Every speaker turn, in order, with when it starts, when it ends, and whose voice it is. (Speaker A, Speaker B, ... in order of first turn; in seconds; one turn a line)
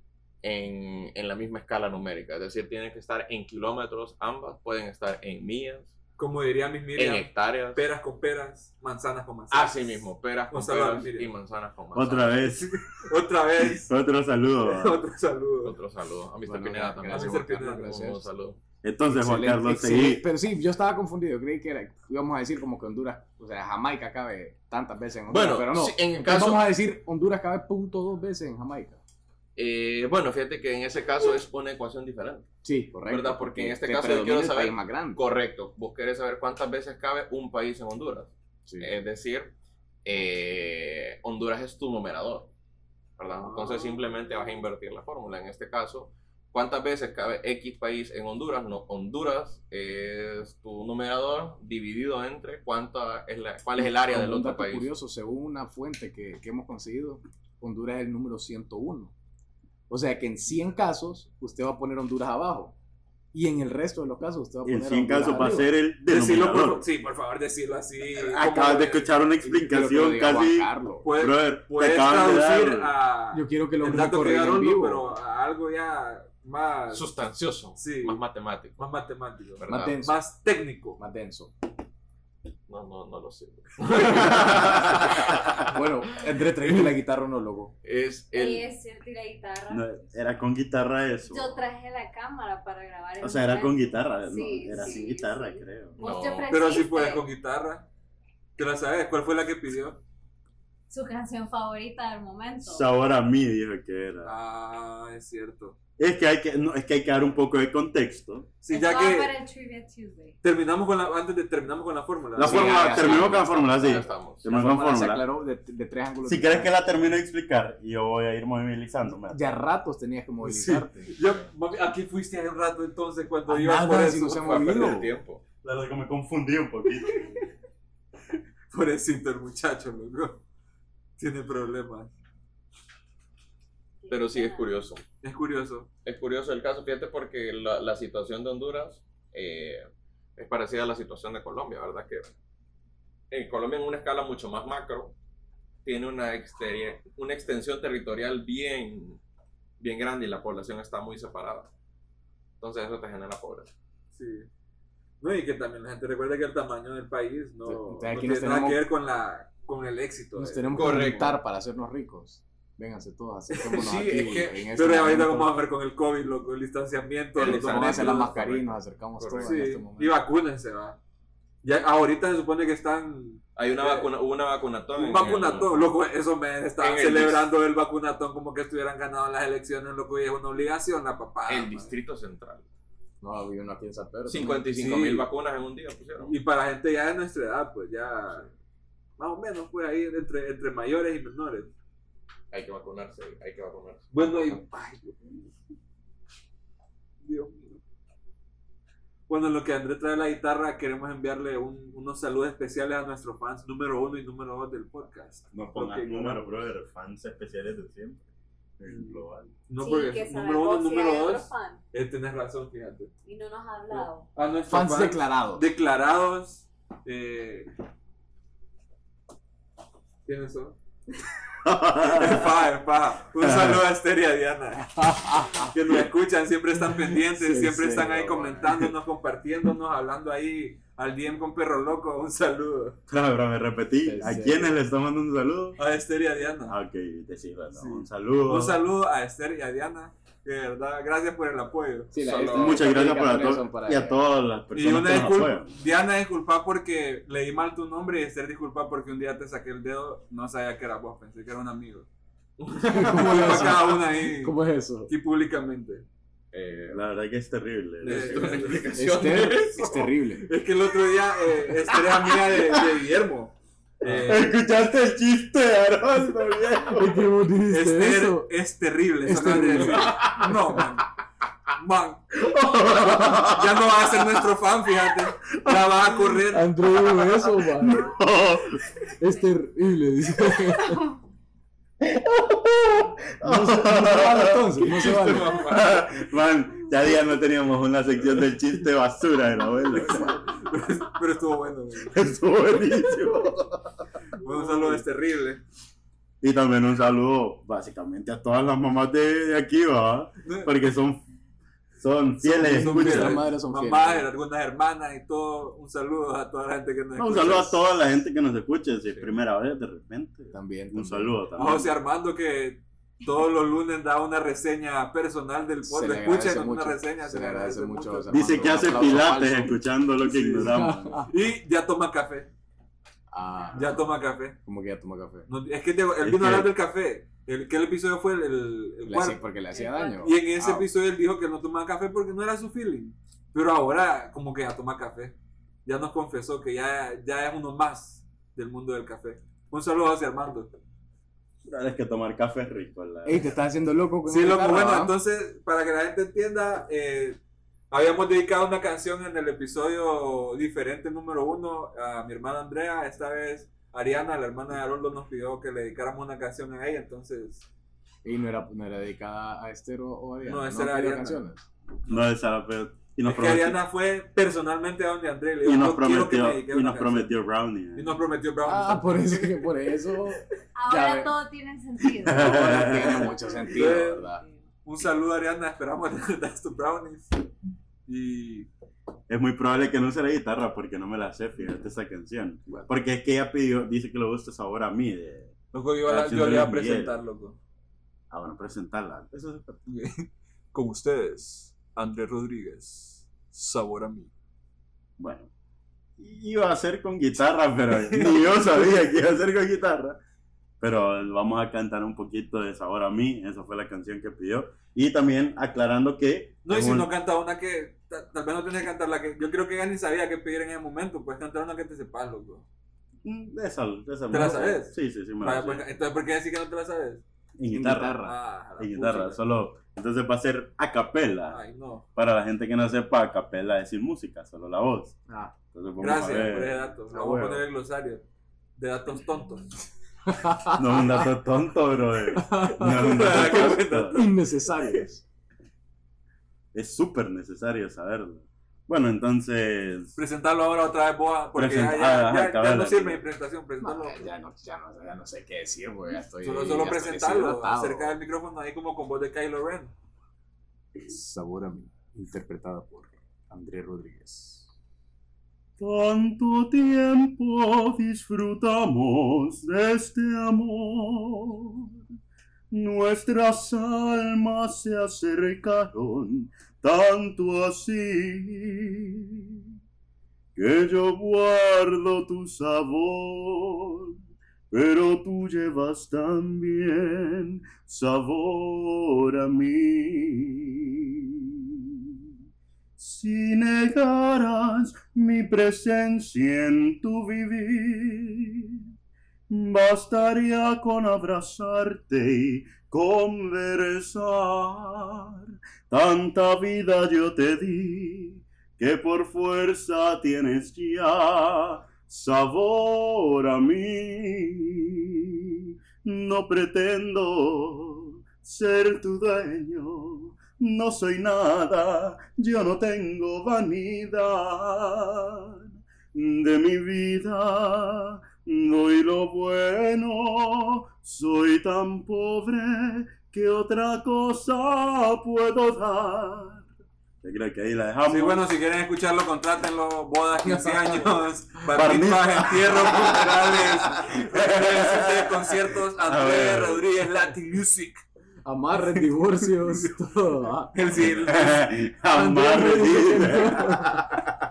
Speaker A: 0.4-5.9
Speaker B: 6.2-9.8
Speaker A: 7.0-7.9
Speaker A: 9.5-12.4
Speaker B: 10.5-11.3
Speaker C: 11.9-12.7
Speaker B: 12.6-13.9
Speaker C: 13.6-15.0
Speaker B: 14.6-15.8
Speaker A: 15.6-18.6
Speaker D: 16.4-18.3
Speaker B: 17.1-17.9
Speaker C: 18.8-20.2
Speaker D: 19.1-29.0
Speaker A: 25.3-26.6
Speaker A: 29.6-32.5
Speaker D: 32.6-35.2
Speaker A: 33.1-39.5
Speaker D: 38.7-38.9
Speaker A: 40.0-42.5
Speaker A: 43.2-54.9
Speaker D: 53.8-59.1
Speaker D: 59.9-62.8
Speaker D: 63.3-65.8
Speaker C: 64.7-66.8
Speaker B: 66.1-69.1
Speaker C: 68.2-72.9
Speaker D: 69.4-71.1
Speaker B: 71.0-77.1
Speaker D: 73.3-75.2
Speaker A: 76.9-78.9
Speaker B: 77.8-78.2
Speaker B: 78.8-81.0
Speaker A: 79.6-80.0
Speaker D: 79.7-80.2
Speaker D: 81.0-81.5
Speaker A: 82.7-85.8
Speaker D: 84.3-87.7
Speaker A: 87.8-88.7
Speaker E: 88.3-90.0
Speaker C: 89.7-91.6
Speaker E: 91.3-97.3
Speaker C: 93.2-96.0
Speaker A: 96.0-96.5
Speaker B: 96.5-97.9
Speaker B: 98.6-100.0
Speaker E: 100.9-102.9
Speaker C: 102.7-104.3
Speaker B: 104.2-105.8
Speaker C: 106.0-108.5
Speaker B: 108.6-109.3
Speaker E: 108.7-110.4
Speaker B: 110.4-112.8
Speaker C: 112.4-115.3
Speaker D: 112.4-117.0
Speaker A: 112.5-114.5
Speaker C: 116.2-119.4
Speaker D: 119.2-121.1
Speaker B: 120.4-124.9
Speaker A: 121.2-121.5
Speaker D: 123.5-125.1
Speaker A: 124.3-125.4
Speaker C: 125.6-127.3
Speaker B: 128.7-130.4
Speaker B: 131.2-132.1
Speaker E: 134.0-134.7
Speaker A: 134.1-135.0
Speaker B: 135.2-135.9
Speaker A: 136.1-142.3
Speaker A: 143.3-145.1
Speaker A: 145.8-149.2
Speaker A: 149.8-151.7
Speaker A: 152.6-153.7
Speaker B: 154.1-154.5
Speaker B: 155.2-161.2
Speaker D: 157.7-158.8
Speaker D: 160.4-165.6
Speaker A: 160.7-161.4
Speaker B: 163.5-163.9
Speaker A: 163.7-164.7
Speaker B: 164.7-168.3
Speaker A: 167.4-169.5
Speaker D: 167.4-170.2
Speaker B: 169.4-171.0
Speaker B: 171.6-174.1
Speaker A: 173.6-175.8
Speaker B: 175.0-181.9
Speaker A: 176.8-177.5
Speaker A: 181.5-182.6
Speaker D: 183.2-184.7
Speaker A: 184.3-186.4
Speaker B: 184.7-185.3
Speaker B: 186.2-188.5
Speaker B: 189.2-191.7
Speaker A: 192.5-194.6
Speaker B: 194.1-195.2
Speaker B: 197.2-197.8
Speaker B: 199.3-206.7
Speaker C: 205.5-208.2
Speaker C: 208.8-209.5
Speaker B: 208.9-213.1
Speaker E: 209.8-211.8
Speaker E: 213.2-214.3
Speaker B: 213.9-217.7
Speaker D: 214.7-215.7
Speaker B: 220.3-220.8
Speaker C: 221.6-222.5
Speaker B: 222.0-233.0
Speaker C: 223.4-223.8
Speaker D: 224.9-225.8
Speaker D: 226.8-228.9
Speaker C: 233.1-235.8
Speaker D: 234.0-234.8
Speaker B: 235.8-236.8
Speaker C: 236.6-238.8
Speaker B: 237.7-242.2
Speaker D: 242.1-244.2
Speaker A: 242.2-242.9
Speaker C: 242.5-245.8
Speaker B: 244.7-252.1
Speaker A: 252.6-253.8
Speaker D: 252.9-255.1
Speaker B: 252.9-256.1
Speaker A: 256.5-257.1
Speaker C: 256.9-258.9
Speaker A: 258.0-260.0
Speaker B: 258.1-259.8
Speaker D: 258.9-260.5
Speaker B: 260.4-264.5
Speaker C: 264.0-267.3
Speaker D: 266.9-268.5
Speaker B: 267.7-271.0
Speaker D: 269.2-271.0
Speaker C: 270.0-270.5
Speaker B: 271.8-272.4
Speaker C: 272.4-273.9
Speaker B: 273.2-276.8
Speaker C: 275.6-276.2
Speaker D: 276.5-278.1
Speaker C: 276.9-279.0
Speaker D: 279.2-281.0
Speaker C: 282.0-290.4
Speaker D: 283.4-285.7
Speaker A: 285.0-286.0
Speaker B: 290.2-292.2
Speaker C: 292.1-293.9
Speaker B: 294.4-295.6
Speaker C: 294.7-295.0
Speaker C: 296.4-301.2
Speaker B: 300.4-300.7
Speaker C: 302.0-303.4
Speaker B: 302.4-307.8
Speaker D: 302.4-304.3
Speaker C: 307.2-312.0
Speaker A: 309.1-309.4
Speaker D: 310.5-311.4
Speaker B: 311.6-319.3
Speaker D: 315.8-321.3
Speaker C: 318.3-321.3
Speaker B: 321.2-322.5
Speaker D: 323.3-324.1
Speaker B: 323.8-324.6
Speaker D: 324.6-325.5
Speaker B: 325.5-329.4
Speaker C: 326.2-326.7
Speaker D: 329.1-330.4
Speaker E: 329.7-330.2
Speaker B: 330.2-340.7
Speaker A: 330.6-330.8
Speaker C: 341.6-343.5
Speaker D: 343.2-345.1
Speaker B: 344.3-347.4
Speaker B: 347.9-357.7
Speaker D: 358.2-361.7
Speaker B: 360.4-361.4
Speaker B: 362.1-362.3
Speaker C: 362.1-363.8
Speaker B: 363.2-367.3
Speaker C: 365.6-368.2
Speaker B: 367.9-369.9
Speaker D: 368.7-371.4
Speaker E: 370.8-373.4
Speaker C: 372.0-373.4
Speaker D: 372.3-374.4
Speaker B: 373.7-374.3
Speaker B: 374.9-377.3
Speaker B: 378.1-378.7
Speaker C: 379.3-385.5
Speaker B: 385.7-387.6
Speaker C: 386.1-387.2
Speaker C: 388.3-389.8
Speaker B: 389.9-394.3
Speaker C: 395.2-395.5
Speaker C: 396.2-400.2
Speaker B: 397.9-398.9
Speaker C: 400.8-407.1
Speaker B: 406.6-412.6
Speaker C: 413.2-415.9
Speaker B: 414.3-417.2
Speaker C: 417.6-418.2
Speaker D: 417.7-418.4
Speaker B: 418.2-419.4
Speaker C: 418.8-421.6
Speaker B: 421.5-422.1
Speaker C: 422.1-425.2
Speaker D: 425.3-425.5
Speaker C: 425.7-426.8
Speaker B: 426.0-428.2
Speaker D: 427.1-427.6
Speaker B: 428.8-429.9
Speaker D: 430.3-431.0
Speaker C: 430.7-434.2
Speaker D: 432.3-435.2
Speaker B: 432.6-434.3
Speaker C: 436.7-440.1
Speaker B: 440.2-444.3
Speaker C: 441.6-443.2
Speaker D: 443.8-448.2
Speaker B: 446.4-449.9
Speaker D: 451.0-454.7
Speaker C: 455.8-461.9
Speaker C: 462.7-469.4
Speaker C: 470.6-474.1
Speaker C: 474.7-480.7
Speaker C: 483.0-488.8
Speaker C: 489.5-504.8
Speaker C: 506.0-515.6
Speaker C: 516.1-526.6
Speaker C: 527.2-528.5
Speaker B: 528.1-538.0
Speaker D: 530.4-531.3
Speaker C: 531.7-536.9
Speaker D: 538.4-540.9
Speaker B: 540.7-541.7
Speaker C: 541.2-544.2
Speaker D: 542.1-544.3